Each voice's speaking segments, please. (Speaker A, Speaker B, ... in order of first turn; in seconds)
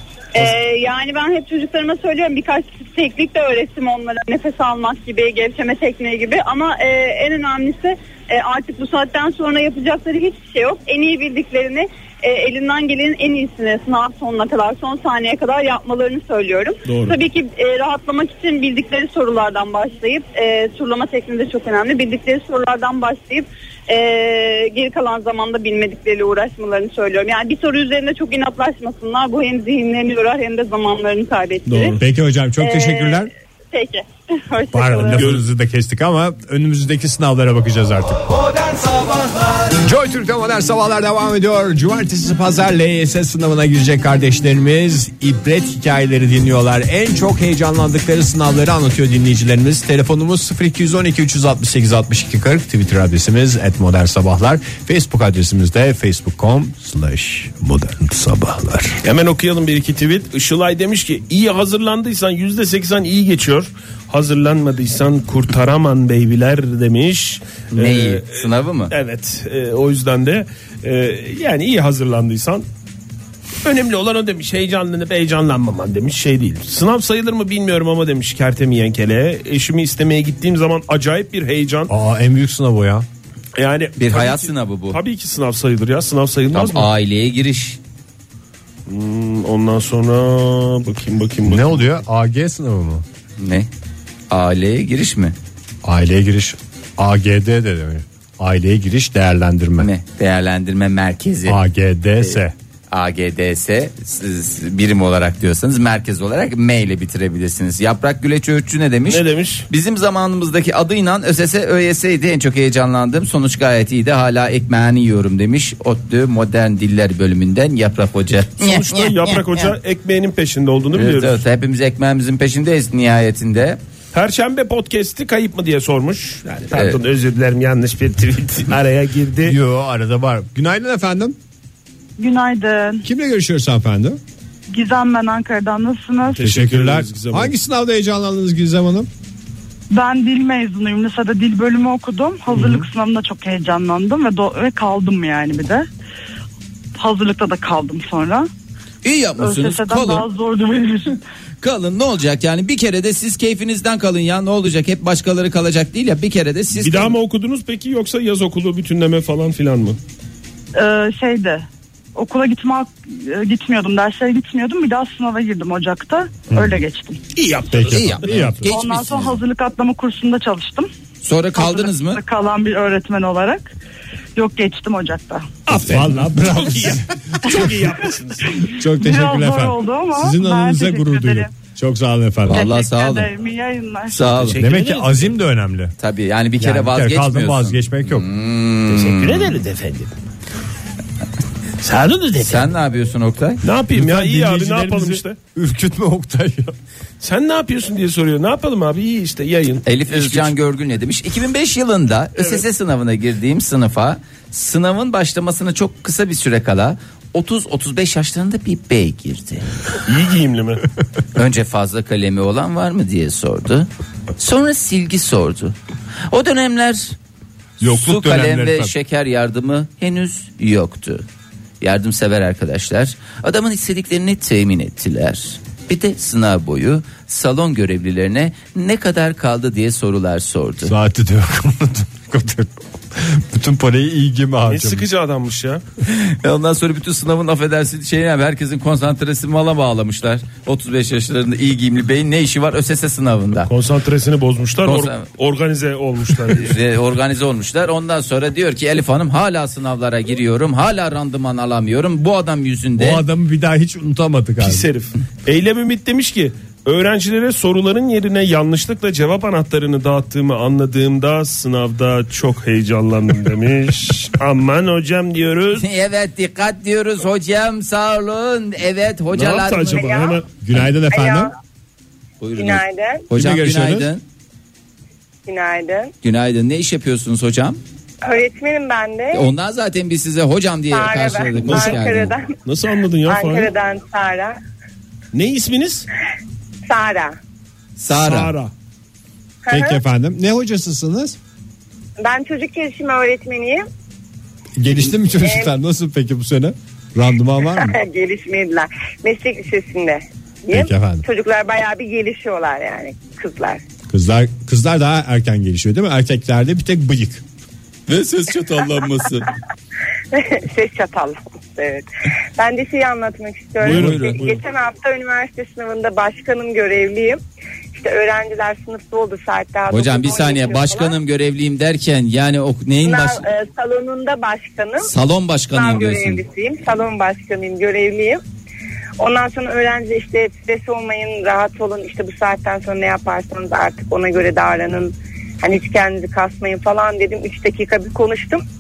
Speaker A: 0.3-32.0, 32.6-35.2
Speaker B: 16.9-17.2, 31.7-32.0, 35.1-35.4, 59.0-72.7, 73.6-81.9, 83.6-86.9, 88.9-91.9, 109.1-109.7, 118.6-121.4, 124.1-129.6, 136.4-137.5, 156.7-160.0, 167.3-168.1, 175.7-178.6, 184.3-185.3, 188.9-190.2, 191.8-192.7, 193.6-195.4, 197.2-200.5, 202.4-202.6, 210.1-210.8, 234.7-235.8, 243.7-246.8, 254.6-265.9, 269.3-270.4, 281.6-282.1, 282.7-283.7, 285.3-286.1, 288.1-288.7, 313.8-314.6
Speaker C: 32.0-33.3, 34.7-38.4, 39.7-59.0, 81.9-83.1, 91.4-93.0, 95.8-99.9, 101.5-102.5, 129.4-131.4, 133.0-134.2, 136.4-139.1, 167.7-169.2, 175.7-177.7, 178.7-182.6, 184.6-185.9, 186.6-188.3, 193.9-196.7, 217.8-218.9, 230.8-235.1, 253.0-254.9, 270.6-271.5, 273.3-274.1, 289.7-291.4, 294.8-297.9, 300.7-301.2, 304.1-307.4
Speaker D: 67.7-68.9, 84.0-85.0, 86.5-87.8, 93.4-93.7, 94.3-95.4, 99.8-101.6, 102.9-119.7, 121.0-123.8, 126.7-127.0, 149.0-150.3, 151.6-157.2, 167.8-169.4, 171.2-172.2, 182.5-183.3, 184.1-184.6, 186.0-189.6, 192.4-193.6, 199.9-209.7, 211.3-215.8, 216.3-217.2, 217.8-221.2, 221.8-230.9, 236.1-243.7, 244.8-245.3, 246.5-253.2, 265.8-270.1, 272.4-274.2, 276.2-277.8, 279.3-282.3, 288.0-288.5, 308.1-309.5, 313.8-314.4, 319.9-323.4, 325.0-326.4
Speaker E: 132.2-133.0, 134.7-136.4, 139.9-145.9, 147.0-148.5, 149.4-151.2, 160.8-167.2, 168.7-170.9, 171.5-173.7, 174.4-175.5, 178.6-181.5, 182.5-184.4
Speaker F: 269.9-270.4, 271.1-271.5, 272.6-273.3, 275.5-276.1, 278.2-279.5, 280.9-282.5, 283.3-284.6, 286.9-287.4, 289.6-290.0, 292.2-293.9, 295.4-295.7, 297.7-303.8, 310.3-317.4, 317.9-321.2, 323.1-325.1, 325.7-328.4, 329.2-338.6